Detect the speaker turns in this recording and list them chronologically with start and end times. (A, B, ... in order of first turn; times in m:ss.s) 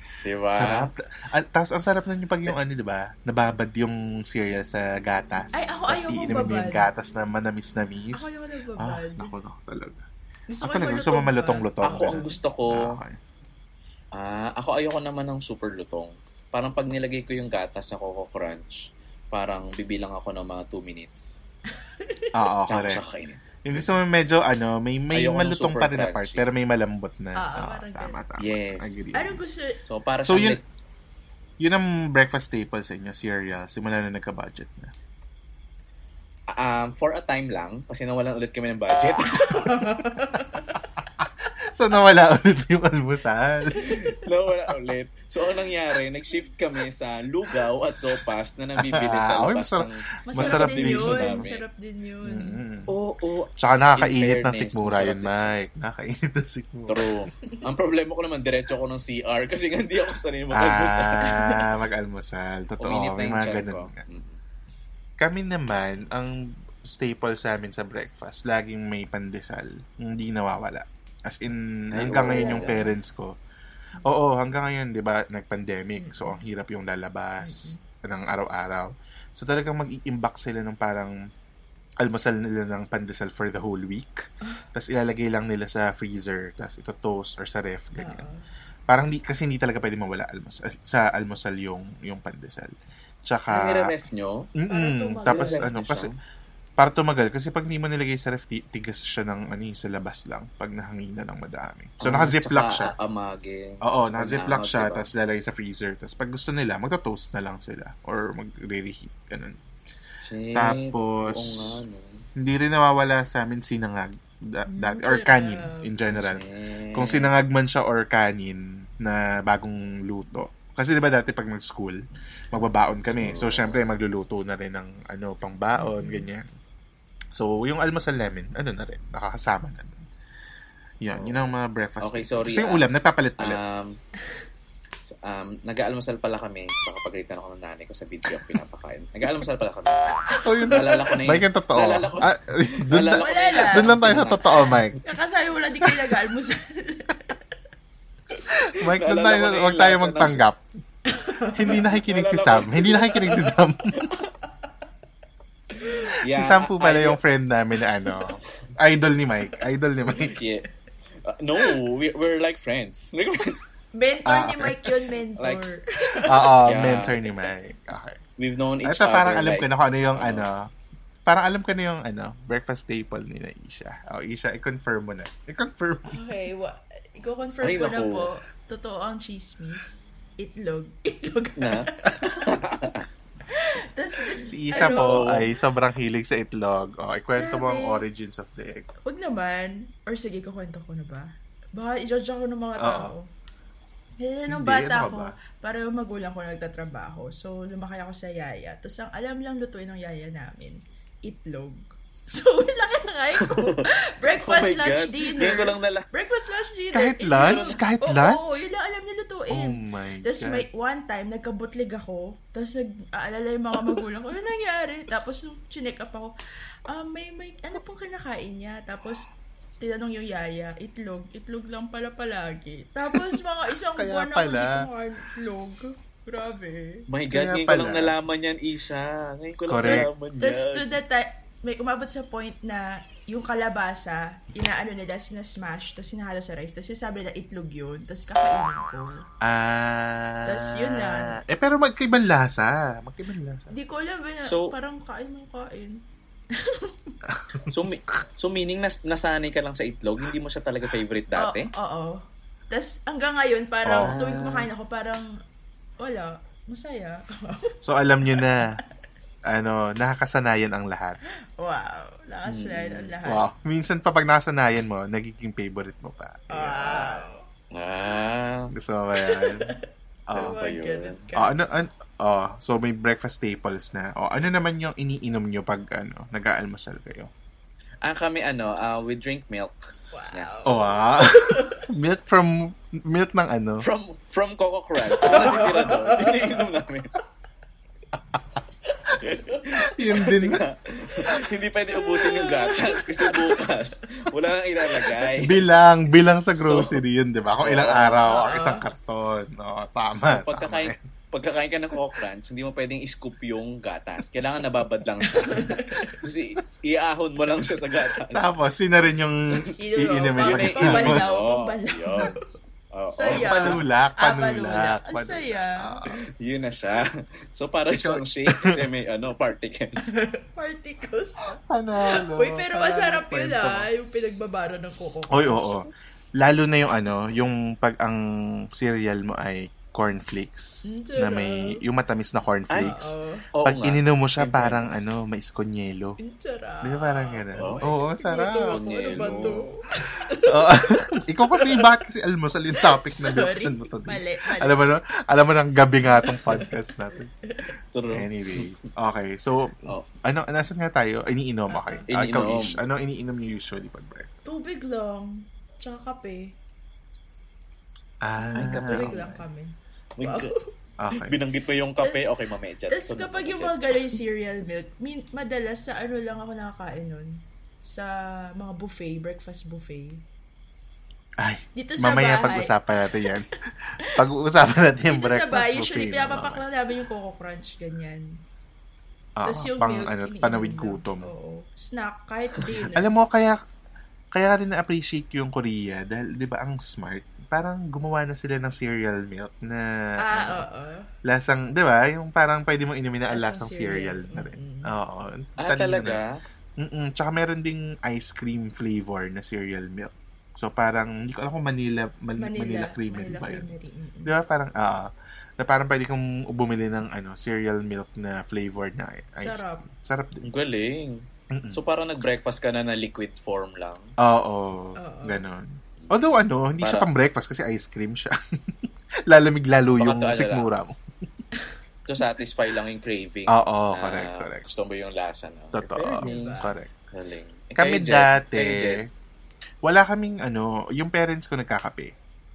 0:00.2-0:00.9 A
0:00.5-0:10.0 B
0:05.5-0:06.9 C
0:08.1-0:09.3 C
0:10.5-0:12.4 C
0:10.6-0:13.2 B
0:11.8-0:13.0 A
0:14.1-0:21.4 A
0:22.0-0:22.3 C
0:22.3-0:23.0 B
0:22.7-0:23.9 A
0:23.6-0:29.4 B
0:25.1-0:26.5 A
0:27.4-0:28.2 C
0:28.4-0:29.1 A
0:29.1-0:29.8 C
0:29.8-0:30.6 A
0:30.2-0:30.6 B
0:31.6-0:34.9 B
0:36.5-0:39.8 A
0:39.4-0:40.8 C
0:41.2-0:44.0 B
0:43.8-0:51.6 A
0:48.8-0:51.4 B
0:50.3-0:52.6 C
0:52.2-0:52.9 B
0:52.9-0:55.6 A
0:53.6-0:57.2 B
0:56.9-1:01.3 A
1:00.5-1:03.9 B
1:01.3-1:01.6 C
1:02.8-1:04.4 A
1:05.2-1:13.4 B
1:11.9-1:12.8 A
1:12.2-1:12.9 C
1:14.0-1:21.1 B
1:16.0-1:16.4 C
1:17.4-1:17.8 C
1:22.0-1:28.2 B
1:28.0-1:28.4 C
1:28.9-1:32.7 B
1:33.2-1:33.9 B
1:33.5-1:34.5 A
1:34.6-1:36.1 B
1:34.7-1:35.7 C
1:35.3-1:36.1 A
1:36.8-1:42.9 B
1:42.0-1:45.0 A
1:43.8-1:49.6 B
1:50.2-1:52.2 A
1:50.5-1:51.8 B
1:52.4-2:06.4 B
1:54.7-1:55.9 C
1:56.1-1:57.3 A
2:03.1-2:03.8 A
2:05.8-2:06.3 C
2:07.3-2:10.0 B
2:11.0-2:13.6 B
2:11.1-2:12.9 A
2:13.4-2:14.0 A
2:15.1-2:24.8 A
2:20.4-2:25.0 B
2:23.2-2:23.9 C
2:25.0-2:27.4 C
2:28.7-2:30.6 B
2:28.8-2:30.4 A
2:31.1-2:31.8 C
2:31.5-2:34.0 B
2:31.9-2:34.3 A
2:36.2-2:37.2 A
2:36.2-2:40.4 B
2:40.1-2:40.6 A
2:41.2-2:43.7 A
2:43.9-2:46.6 C
2:44.2-2:44.9 B
2:45.4-2:45.6 A
2:46.2-2:48.2 B
2:46.6-2:47.2 A
2:48.4-2:50.5 A
2:48.8-2:50.7 B
2:51.2-2:56.2 B
2:56.1-3:02.6 C
2:57.6-2:58.3 A
3:01.6-3:03.0 A
3:03.5-3:05.4 C
3:04.4-3:08.9 B
3:04.7-3:05.4 A
3:07.4-3:08.0 C
3:09.0-3:13.3 C
3:12.8-3:13.1 B
3:14.2-3:36.3 C
3:14.5-3:15.4 B
3:23.4-3:26.1 A
3:26.9-3:28.6 B
3:27.4-3:27.8 A
3:29.5-3:30.6 B
3:36.9-3:39.3 C
3:39.8-3:47.0 C
3:44.0-3:44.9 B
3:47.1-3:50.9 A
3:47.3-3:48.1 B
3:49.7-3:50.1 B
3:49.8-3:59.2 C
3:59.4-4:03.7 B
4:00.4-4:01.4 C
4:03.7-4:06.0 C
4:04.4-4:04.7 A
4:06.5-4:07.2 C
4:07.3-4:07.7 B
4:07.7-4:11.7 A
4:11.3-4:15.3 C
4:13.8-4:14.6 B
4:14.0-4:14.5 A
4:16.0-4:17.8 C
4:17.8-4:18.8 B
4:18.3-4:18.8 C
4:19.4-4:21.2 B
4:21.6-4:23.5 C
4:22.4-4:23.1 A
4:23.2-4:27.2 B
4:26.5-4:27.4 C
4:27.7-4:28.7 A
4:28.7-4:29.7 B
4:29.1-4:29.8 C
4:30.3-4:30.6 B
4:30.3-4:31.2 A
4:30.4-4:31.6 C
4:31.3-4:37.3 B
4:38.0-4:39.8 A
4:40.1-4:41.8 C
4:40.6-4:43.8 B
4:43.8-4:47.1 A
4:45.1-4:46.6 C
4:49.2-4:55.6 A
4:49.8-4:50.6 B
4:51.2-4:53.6 C
4:55.4-5:01.0 B
4:56.6-4:57.0 A
4:57.6-4:58.3 A
4:58.2-4:58.8 C
5:00.3-5:08.5 A
5:05.3-5:06.2 C
5:08.3-5:11.3 B
5:09.8-5:12.4 C
5:10.4-5:12.3 A
5:12.9-5:13.8 A
5:13.1-5:15.9 C
5:13.3-5:16.2 B
5:16.4-5:20.1 A
5:17.9-5:18.8 B
5:20.0-5:25.7 C
5:21.6-5:23.9 B
5:25.3-5:36.2 B
5:30.9-5:31.8 C
5:32.7-5:33.0 A
5:32.8-5:33.4 C
5:33.6-5:35.0 A
5:36.2-5:41.9 C
5:36.8-5:39.6 B
5:37.6-5:37.8 A
5:38.5-5:39.7 A
5:40.4-5:47.3 B
5:42.8-5:44.8 C
5:46.1-5:46.8 C
5:47.9-5:48.8 A
5:48.1-5:54.3 B
5:51.7-5:52.0 C
5:52.1-5:52.8 A
5:54.4-5:56.5 C
5:58.2-5:59.2 B
5:58.4-6:00.7 C
5:58.6-5:59.4 A
6:00.2-6:00.5 A
6:01.0-6:01.4 B
6:01.1-6:03.7 A
6:02.9-6:10.2 C
6:11.4-6:13.5 B
6:11.8-6:13.3 C
6:14.0-6:16.6 B
6:15.1-6:18.4 C
6:19.4-6:21.3 B
6:19.4-6:23.1 C
6:22.9-6:23.6 B
6:24.3-6:30.6 B
6:30.2-6:31.1 C
6:31.2-6:36.2 B
6:33.3-6:34.9 C
6:35.6-6:36.4 A
6:36.8-6:43.7 B
6:42.4-6:44.4 C
6:44.2-6:50.5 B
6:49.4-6:49.9 C
6:50.4-6:54.1 A
6:51.5-6:51.8 B
6:54.2-7:01.0 B
6:55.0-6:55.4 C
6:56.0-6:57.1 A
7:00.0-7:00.7 A
7:02.1-7:09.0 A
7:03.5-7:04.6 B
7:05.7-7:06.9 B
7:06.2-7:06.7 C
7:07.8-7:09.1 B
7:09.8-7:12.1 B